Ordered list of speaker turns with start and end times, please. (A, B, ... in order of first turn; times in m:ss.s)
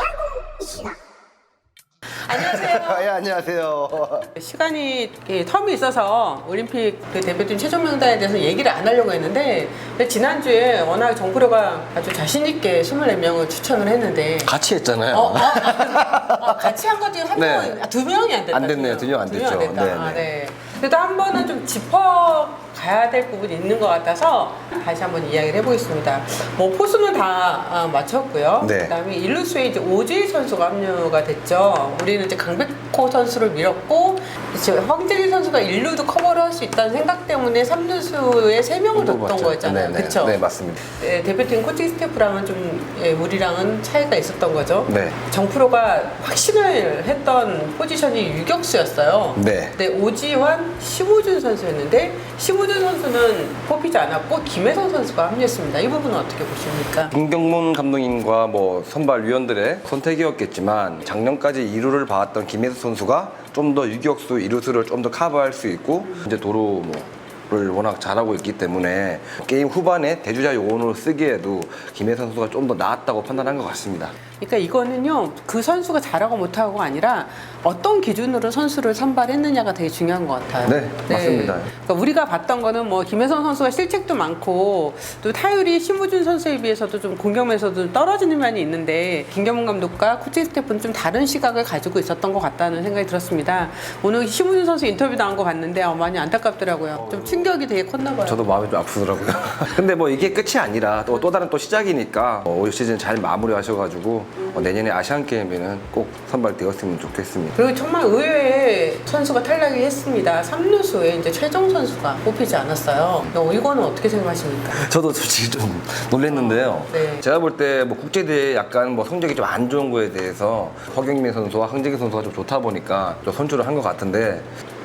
0:02.2-0:03.1 A
0:02.3-0:04.3 B
0:04.3-0:14.5 A
0:14.4-0:16.7 B
0:15.1-0:57.1 A
0:17.3-0:17.8 B
0:18.5-0:20.3 B
0:28.6-0:28.9 B
0:38.9-0:40.8 B
0:44.9-0:45.2 B
0:49.4-0:49.8 B
0:57.1-1:14.1 B
1:14.4-1:38.4 A
1:20.6-1:21.7 B
1:38.2-1:47.6 B
1:47.6-1:54.8 A
1:54.7-2:04.5 B
1:56.3-1:57.2 A